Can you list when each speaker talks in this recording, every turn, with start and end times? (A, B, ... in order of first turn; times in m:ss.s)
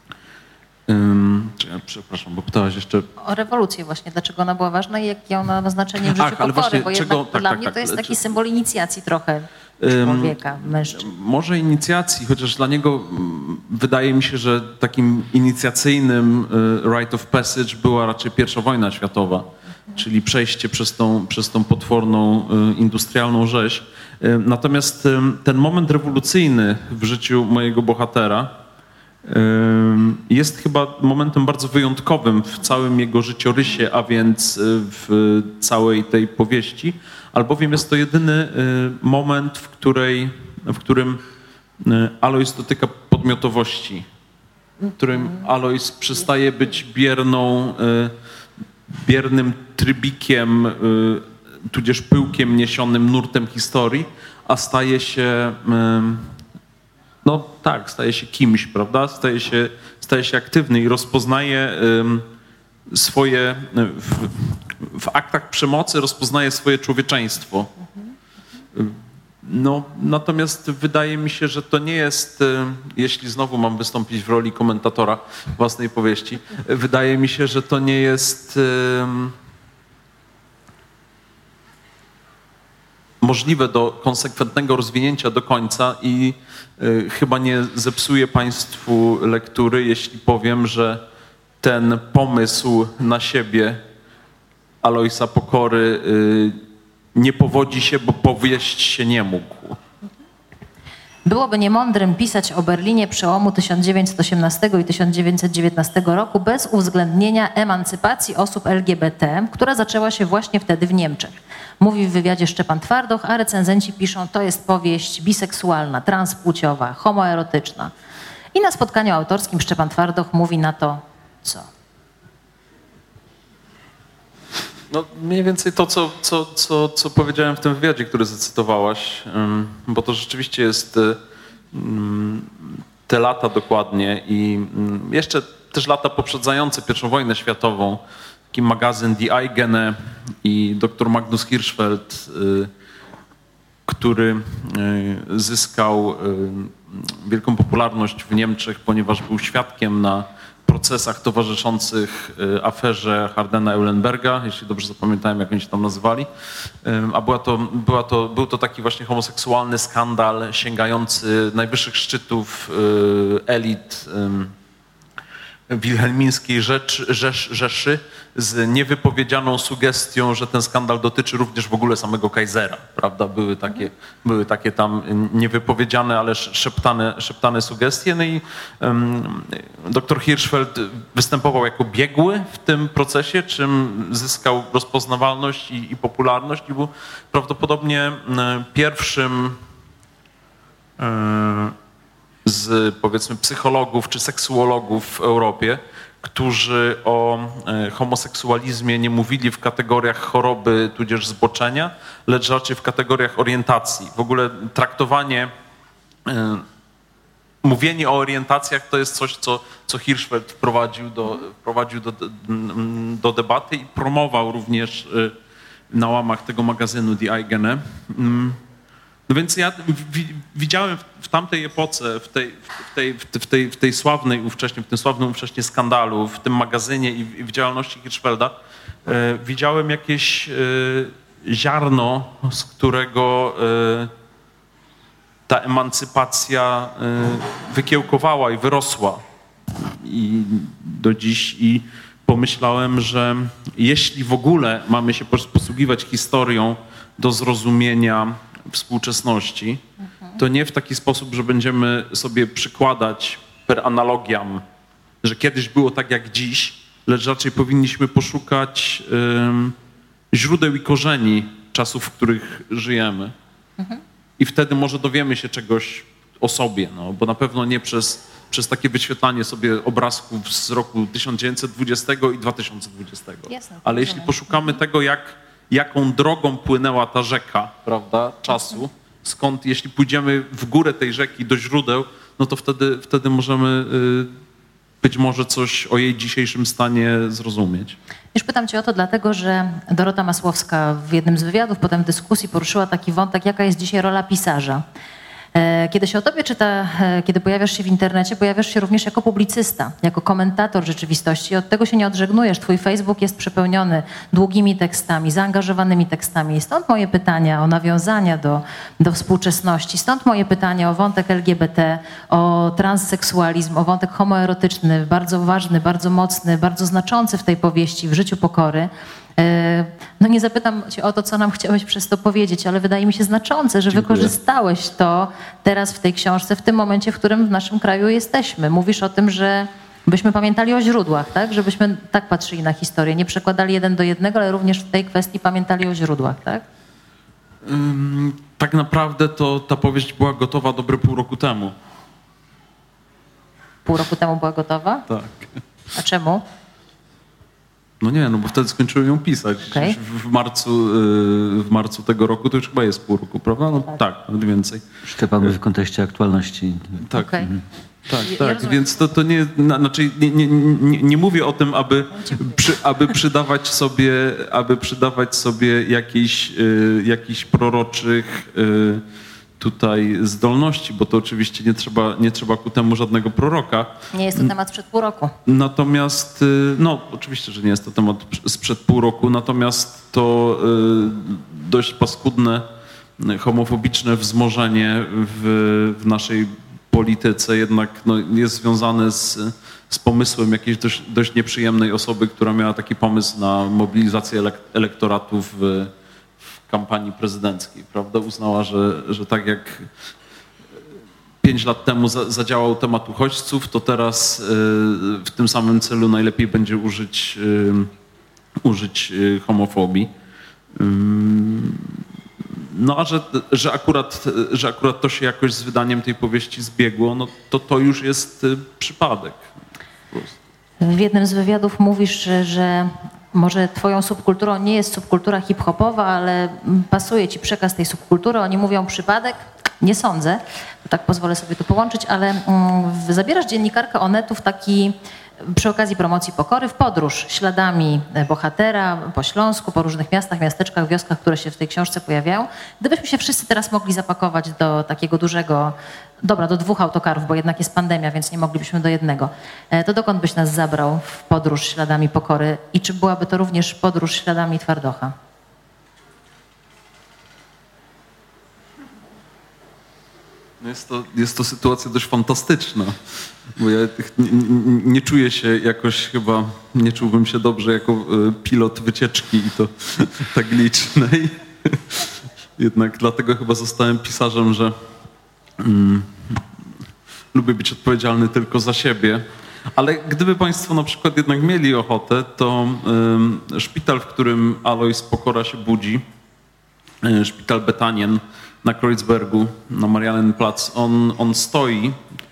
0:00.9-0:03.1 A
0:03.2-0:11.1 B
0:06.0-0:08.2 A
0:09.8-0:28.5 A
0:29.2-0:41.2 A
0:41.8-0:44.0 A
0:45.0-0:48.1 A
0:49.0-0:56.3 A
0:57.2-1:02.2 A
1:02.9-1:07.7 A
1:08.7-1:19.3 A
1:23.2-1:31.0 A
1:31.6-1:33.8 A
1:34.8-1:36.6 A
1:37.1-1:39.8 A
1:41.2-1:57.9 B
1:58.5-2:01.7 B
2:04.9-2:11.2 A
2:11.7-2:18.0 A
2:18.5-2:22.7 A
2:23.9-2:36.3 A
2:36.8-2:44.5 A
2:45.7-3:09.6 A
3:11.0-3:11.7 A
3:12.4-3:25.5 A
3:26.3-3:26.6 A
3:27.6-3:35.3 A
3:35.9-3:38.6 A
3:39.3-3:48.5 A
3:49.0-3:54.1 A
3:55.5-3:59.2 A
3:59.8-4:09.8 A
4:10.4-4:14.6 A
4:15.2-4:19.8 A
4:20.3-4:23.3 A
4:24.4-4:44.3 A
4:33.5-4:34.5 B
4:45.0-4:48.0 A
4:48.3-4:54.8 B
4:55.5-5:36.6 B
5:23.9-5:24.3 A
5:37.6-5:41.7 A
5:43.8-5:45.0 B
5:45.1-5:45.5 A
5:45.9-5:46.4 B
5:48.0-5:54.8 A
5:49.7-5:50.0 B
5:55.0-5:57.0 C
5:57.0-6:09.0 A
5:57.1-5:57.5 B
5:58.2-5:58.8 B
6:02.2-6:02.6 B
6:09.6-6:14.5 A
6:14.1-6:15.3 B
6:15.4-6:22.6 A
6:23.2-6:35.9 A
6:36.7-6:39.9 A
6:41.4-6:47.9 A
6:48.6-6:50.1 A
6:50.8-6:59.4 A
7:00.8-7:35.1 B
7:40.6-7:43.0 A
7:43.6-7:54.7 A
7:55.6-7:56.4 A
7:57.3-7:59.2 A
7:59.8-8:06.0 A
8:07.0-8:12.0 A